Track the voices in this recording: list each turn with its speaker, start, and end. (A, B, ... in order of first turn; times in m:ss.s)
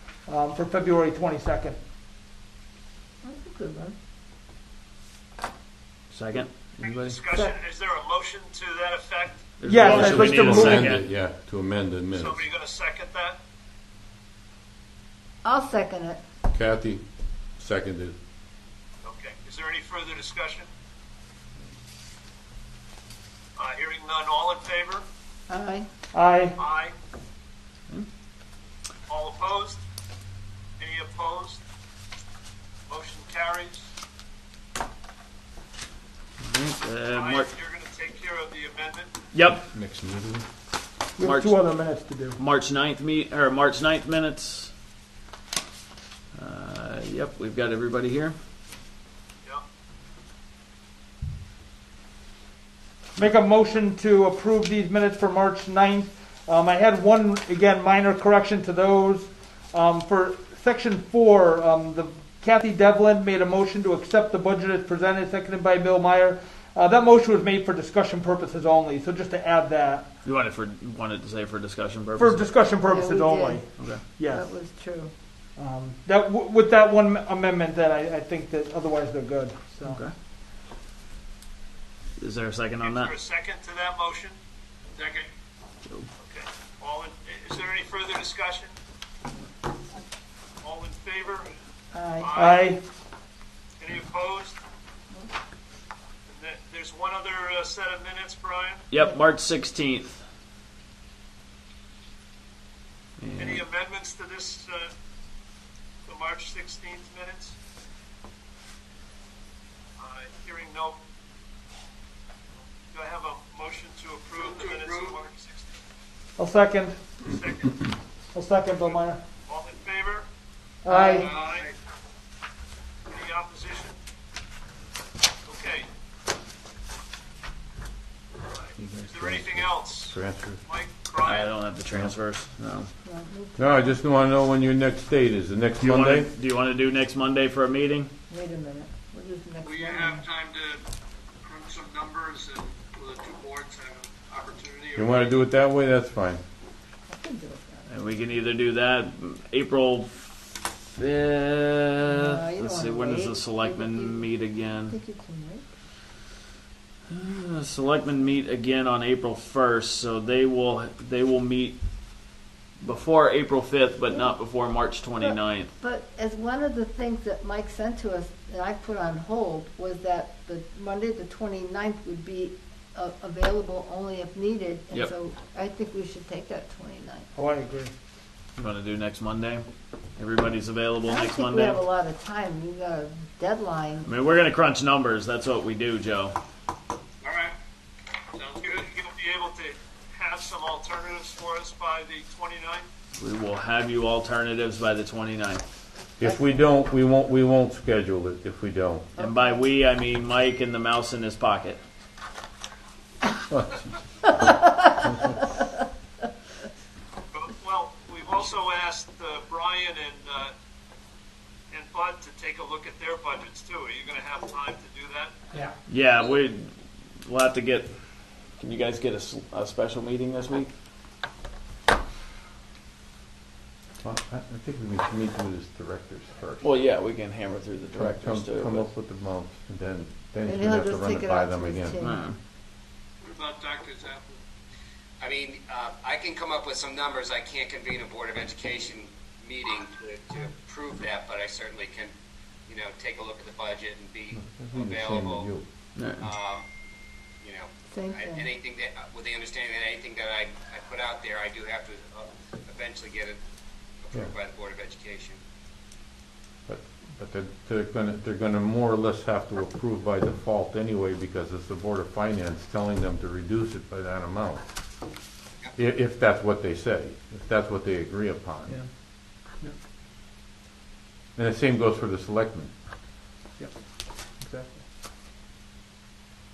0:00.2-0:01.8 A
0:03.2-0:03.9 B
0:06.1-0:07.2 C
0:06.9-0:09.5 D
0:07.3-0:07.6 B
0:09.6-0:11.0 C
0:09.6-0:11.0 A
0:09.8-0:12.4 E
0:12.1-0:13.4 D
0:15.4-0:16.2 B
0:16.5-0:17.0 E
0:17.6-0:18.2 E
0:19.0-0:20.7 D
0:23.6-0:25.0 D
0:25.5-0:25.9 B
0:26.1-0:26.6 A
0:26.6-0:26.9 D
0:29.1-0:29.8 D
0:30.8-0:31.6 D
0:32.9-0:33.9 D
0:36.4-0:37.5 C
0:37.1-0:39.1 D
0:39.3-0:39.7 C
0:39.7-0:40.4 E
0:41.2-0:42.4 A
0:41.2-0:41.6 C
0:42.4-0:44.7 C
0:46.3-0:48.4 C
0:53.2-1:10.1 A
1:10.2-1:12.4 C
1:12.2-1:14.5 A
1:12.9-1:13.6 B
1:13.8-1:14.0 C
1:14.2-1:15.1 B
1:15.6-1:20.0 A
1:19.8-1:20.1 C
1:22.2-1:23.1 C
1:22.8-1:24.3 D
1:26.2-1:28.7 D
1:30.6-1:31.5 D
1:31.9-1:32.3 B
1:32.2-1:32.8 D
1:32.3-1:32.8 A
1:33.8-1:34.6 D
1:36.3-1:38.9 D
1:38.9-1:40.1 C
1:43.2-1:43.6 C
1:43.4-1:44.9 D
1:46.1-1:47.5 D
1:50.0-1:51.0 D
1:52.9-1:55.7 D
1:56.4-1:57.0 A
1:57.2-1:57.9 D
1:58.3-1:59.2 A
1:59.5-2:00.3 D
2:00.8-2:01.3 A
2:00.9-2:01.4 B
2:01.0-2:01.6 F
2:01.1-2:01.7 D
2:03.1-2:04.0 D
2:05.4-2:05.9 D
2:08.5-2:11.5 D
2:08.8-2:10.6 E
2:11.2-2:12.9 C
2:13.0-2:13.9 B
2:13.6-2:16.3 E
2:15.8-2:18.1 C
2:18.3-2:20.2 B
2:19.6-2:20.3 F
2:21.5-2:25.4 D
2:24.9-2:26.4 E
2:27.1-2:27.8 B
2:27.9-2:30.3 C
2:30.9-2:34.9 C
2:32.1-2:34.2 B
2:34.9-2:35.6 B
2:37.1-2:41.8 C
2:42.8-2:45.7 C
2:45.2-2:57.3 B
2:57.3-2:57.9 A
2:58.6-2:59.6 C
3:00.2-3:01.8 C
3:01.0-3:04.1 B
3:04.0-3:06.4 C
3:08.5-3:12.9 D
3:13.2-3:15.6 C
3:16.2-3:19.1 E
3:19.2-3:21.8 C
3:23.5-3:23.8 E
3:27.3-3:30.5 D
3:31.7-3:35.5 D
3:35.9-3:36.7 C
3:37.2-3:37.9 C
3:38.6-3:40.7 C
3:44.0-3:46.8 E
3:46.6-3:48.9 C
3:48.0-3:52.0 E
3:50.4-3:52.3 B
3:52.0-3:52.4 C
3:53.4-3:54.0 F
3:55.2-4:02.1 G
4:02.7-4:05.5 G
4:04.3-4:05.6 E
4:06.0-4:06.2 C
4:06.2-4:06.6 G
4:07.4-4:13.4 G
4:07.9-4:08.5 B
4:14.0-4:15.4 G
4:16.7-4:24.6 E
4:25.8-4:28.8 E
4:31.4-4:32.7 E
4:34.4-4:34.8 A